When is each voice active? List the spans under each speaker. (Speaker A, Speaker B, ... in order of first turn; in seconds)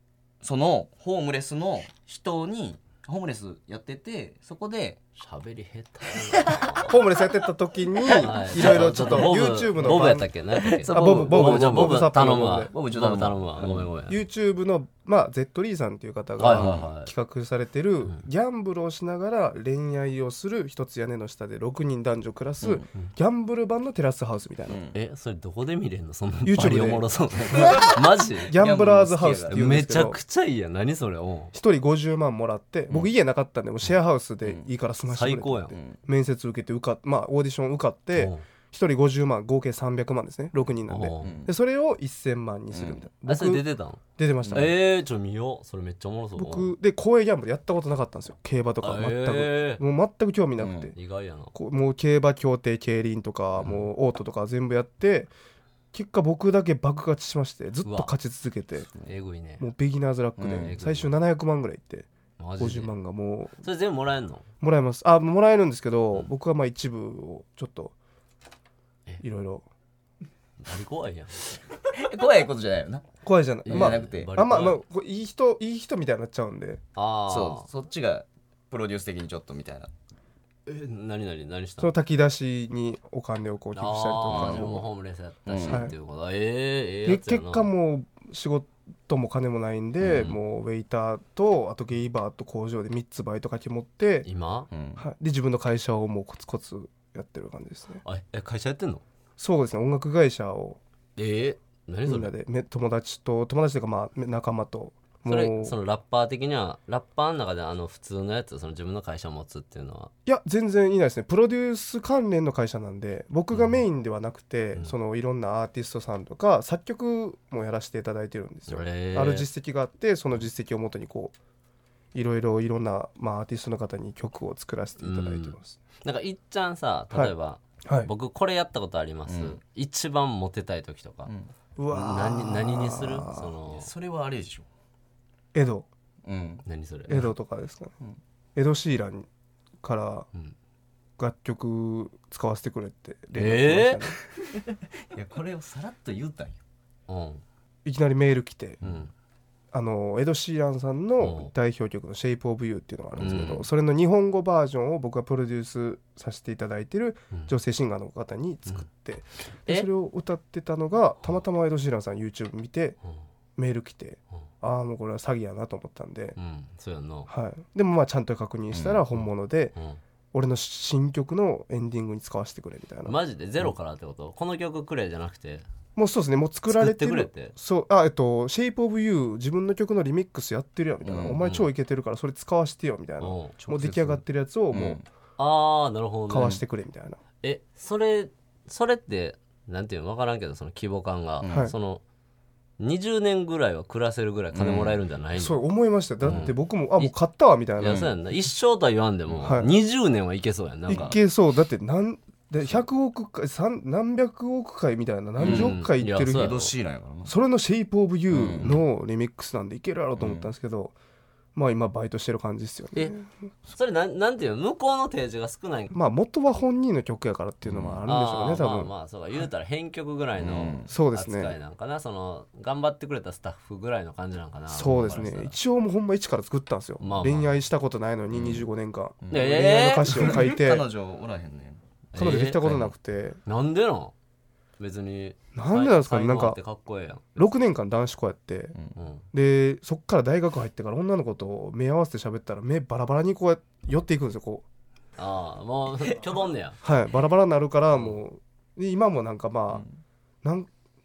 Speaker A: 0.4-5.0, 6.3-6.7, 8.4-9.3, 10.6-12.0, 12.7-13.9, 16.5-16.9, 24.7-25.0, 27.5-28.0, 28.5-29.9, 35.7-36.0, 41.2-41.5, 42.7-43.0, 44.4-44.7, 50.6-50.9, 60.4-60.7, 71.9-73.1, 73.7-74.3, 77.3-79.9, 84.3-84.8, 85.5-85.9, 94.7-95.0, 129.3-129.6, 133.7-134.7, 136.2-136.6, 145.1-146.6, 153.2-153.6, 168.7-169.0, 181.0-181.4, 184.7-185.1, 191.4-191.7, 194.5-195.0, 196.3-196.5, 197.8-198.1, 205.4-205.7, 206.3-207.3, 208.3-208.8, 210.2-210.5, 217.7-218.0, 220.4-220.9, 228.3-228.7, 229.2-229.6, 230.1-231.8
Speaker B: 5.2-6.9, 8.2-14.2, 16.4-17.1, 24.9-28.6, 29.5-31.5, 35.1-35.8, 38.1-38.4, 40.9-41.4, 43.3-46.7, 48.8-49.8, 50.9-51.5, 53.6-53.9, 57.8-58.1, 59.0-59.7, 60.6-61.1, 62.4-62.9, 63.6-64.5, 70.6-71.6, 73.7-74.8, 77.0-77.7, 80.7-81.9, 83.8-87.7, 90.0-90.4, 94.2-94.7, 98.0-99.0, 101.2-102.3, 105.3-110.1, 113.5-113.8, 118.7-119.5, 125.0-131.3, 131.9-133.9, 136.7-137.3, 143.3-144.0, 147.1-147.4, 148.8-149.1, 151.2-151.5, 153.2-153.6, 166.4-167.3, 169.2-170.0, 173.1-175.7, 176.7-177.6, 181.4-181.7, 183.2-184.1, 185.4-186.6, 187.4-192.0, 192.8-195.6, 196.2-197.1, 197.8-201.2, 205.4-206.7, 213.7-215.9, 218.1-225.6, 227.0-227.5, 229.3-230.4, 232.1-232.9, 233.4-234.1, 234.8-237.4, 239.0-239.2, 245.2-246.8
Speaker C: 6.8-10.3, 10.9-12.7, 14.1-24.8, 26.4-27.8, 28.5-30.2, 31.5-43.6, 44.2-44.7, 46.4-50.9, 51.5-55.3, 55.9-58.9, 59.6-62.1, 62.6-63.6, 64.6-67.9, 69.2-69.7, 73.2-76.8, 81.8-84.8, 85.7-85.9, 87.0-94.3, 95.0-98.0, 99.4-100.8, 102.1-105.8, 110.3-121.3, 122.1-125.8, 127.8-128.1, 131.8-133.5, 135.5-135.9, 137.1-137.9, 138.6-139.3, 139.8-140.3, 141.2-144.2, 147.8-148.8, 149.7-163.0, 163.6-166.4, 167.3-169.7, 170.3-173.2, 176.0-185.0, 186.3-187.2, 191.5-191.7, 195.4-198.1, 199.4-199.7, 200.9-206.6, 207.2-210.9, 211.6-213.3, 215.9-218.9, 220.9-221.6, 224.7-230.9, 232.2-233.4, 235.6-236.6, 237.4-238.8, 239.3-244.7, 246.8-249.9, 250.4-250.7